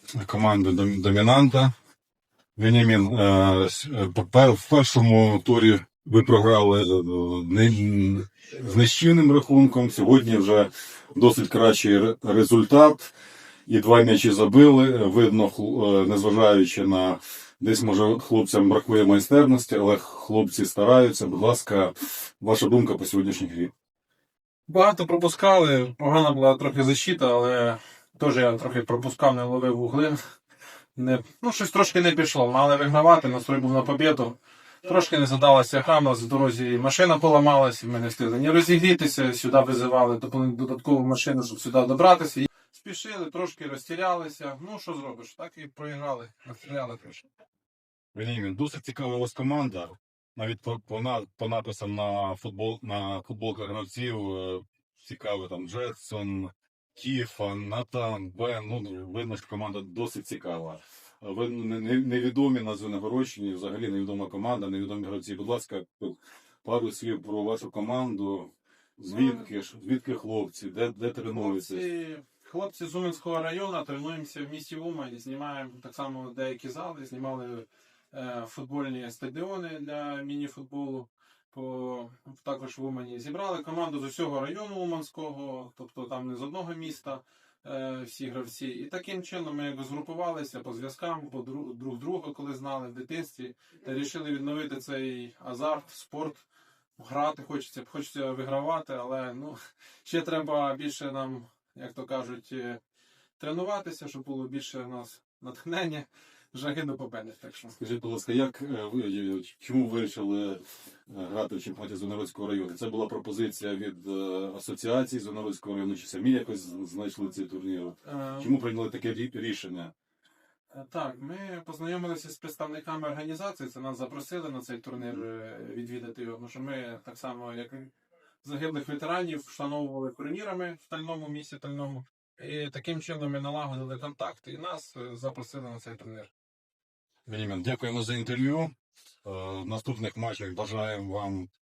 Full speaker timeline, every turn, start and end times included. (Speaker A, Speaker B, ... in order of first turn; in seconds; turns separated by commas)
Speaker A: 0.1-1.7, Speaker A: 2.6-13.1, Speaker A: 13.7-23.7, Speaker B: 24.7-30.2, Speaker B: 31.0-47.3, Speaker A: 48.1-71.8, Speaker B: 69.1-69.5, Speaker B: 71.3-96.4, Speaker B: 97.0-102.8, Speaker B: 103.4-107.8, Speaker A: 107.8-119.9, Speaker B: 118.0-118.5, Speaker B: 120.7-127.9, Speaker B: 128.4-136.3, Speaker A: 137.3-138.7, Speaker A: 139.2-141.5